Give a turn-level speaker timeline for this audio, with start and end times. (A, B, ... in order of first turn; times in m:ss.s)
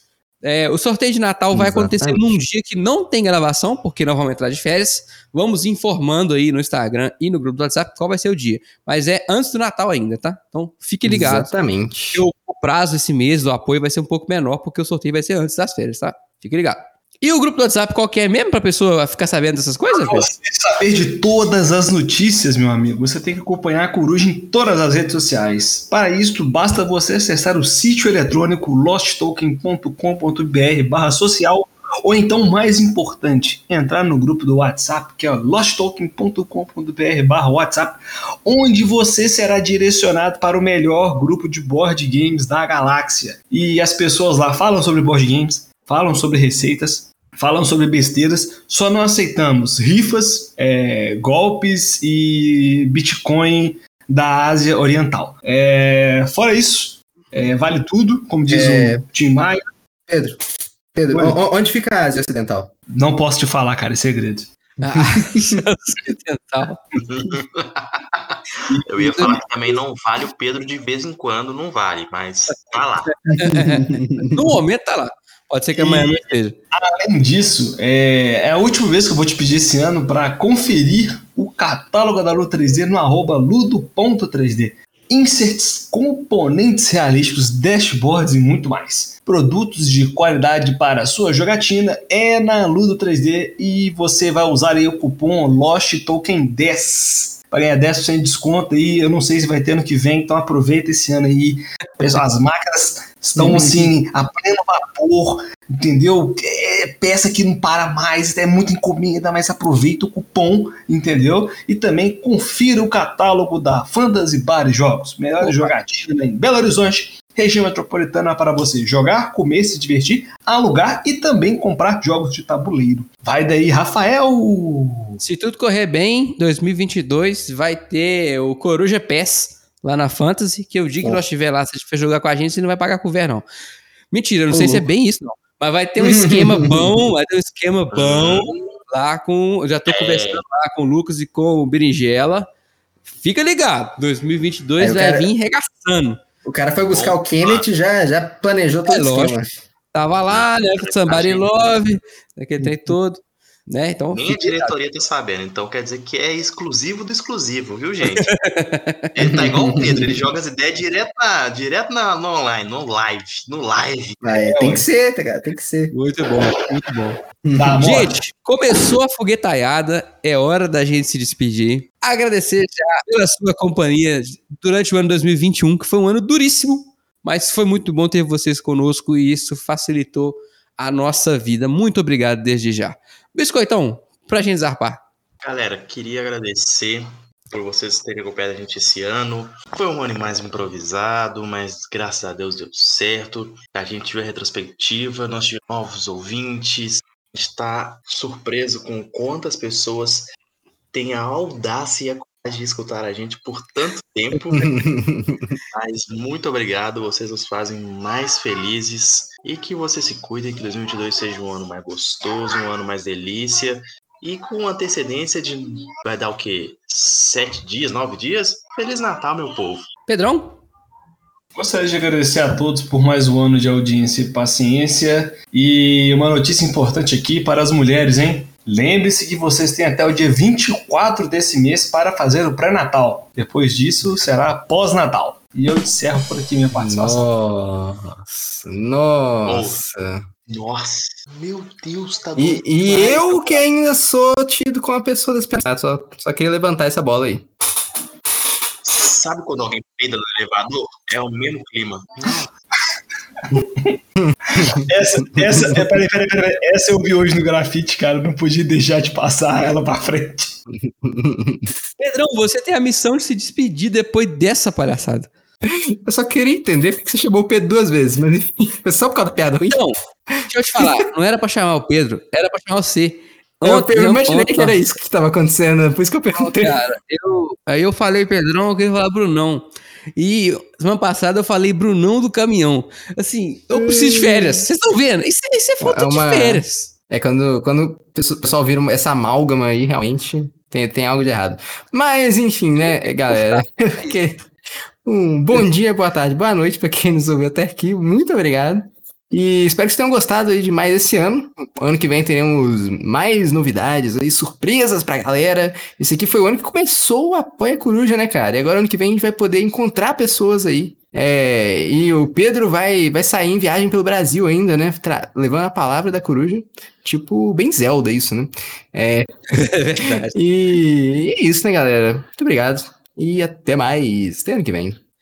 0:00.4-0:11.5 A
0:01.5-0:02.3 B
0:11.0-0:12.2 B
0:12.1-0:20.3 A
0:19.9-0:59.7 C
0:58.5-0:59.0 B
1:00.1-1:00.4 B
1:00.9-1:02.7 B
1:01.1-1:01.4 C
1:02.9-1:04.6 C
1:04.8-1:06.8 A
1:07.0-1:13.2 D
1:08.7-1:09.4 C
1:13.3-1:16.6 A
1:13.3-1:14.4 B
1:15.8-2:05.2 C
1:43.4-1:43.9 B
1:55.4-1:55.7 A
2:05.2-2:13.4 A
2:14.1-2:22.5 A
2:14.5-2:14.9 B
2:16.0-2:16.9 B
2:17.9-2:18.6 D
2:19.9-2:20.4 D
2:23.2-2:26.2 A
2:24.8-2:25.3 B
2:26.4-2:29.5 B
2:26.8-2:27.7 D
2:28.9-2:29.4 A
2:29.9-2:34.8 A
2:30.3-2:31.8 D
2:34.1-2:38.3 D
2:38.2-2:39.1 A
2:39.1-2:44.2 D
2:39.2-2:40.2 B
2:44.2-2:45.9 B
2:44.3-2:44.8 C
2:45.9-2:47.2 A
2:47.4-2:47.8 B
2:47.6-2:48.2 C
2:47.8-3:05.0 A
3:05.4-3:20.3 D
3:20.9-3:24.9 D
3:24.5-3:25.6 B
3:25.7-3:39.9 D
3:40.1-3:40.6 A
3:41.6-3:57.2 C
3:56.7-4:00.2 B
3:59.4-3:59.8 D
4:00.5-4:03.6 D
4:02.4-4:07.5 B
4:08.8-4:12.5 D
4:13.4-4:14.0 C
4:14.2-4:14.9 B
4:14.5-4:20.6 C
4:15.4-4:15.8 B
4:20.8-4:21.7 B
4:22.0-4:25.3 A
4:26.0-4:30.9 B
4:29.7-4:34.8 A
4:33.6-4:36.8 B
4:36.4-4:46.9 A
4:43.7-4:44.7 B
4:45.8-4:54.5 B
4:53.3-4:53.6 A
4:55.0-5:19.3 B
5:19.5-5:20.4 A
5:20.3-5:25.0 B